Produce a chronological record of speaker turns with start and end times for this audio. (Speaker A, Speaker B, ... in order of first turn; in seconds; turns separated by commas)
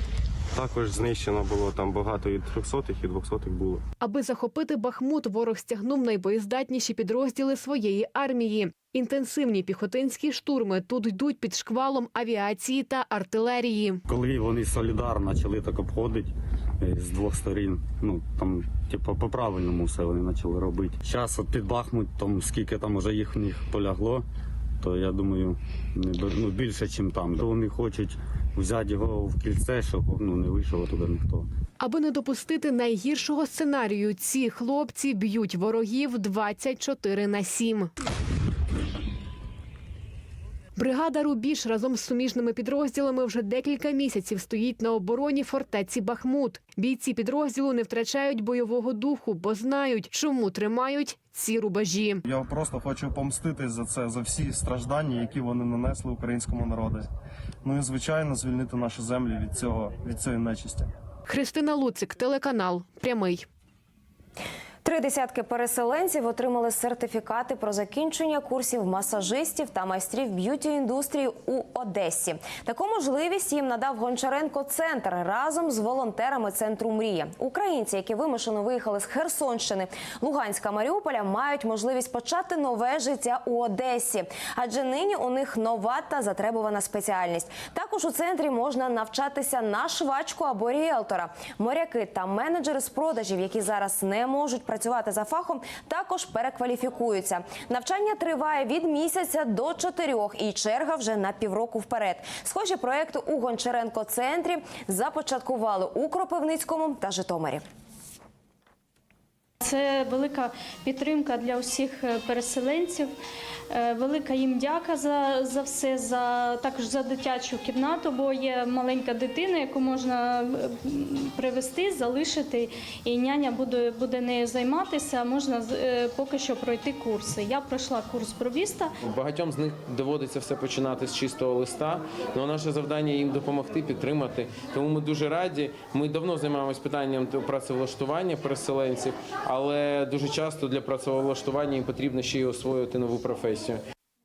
Speaker A: 0.5-3.8, Speaker B: 4.0-14.0, Speaker C: 14.1-24.2, Speaker C: 24.8-31.5, Speaker B: 31.8-37.9, Speaker B: 40.8-52.2, Speaker A: 52.2-57.0, Speaker A: 57.6-60.9, Speaker B: 61.3-63.5, Speaker D: 64.8-107.6, Speaker E: 109.6-113.1, Speaker E: 113.7-128.9, Speaker F: 129.0-143.8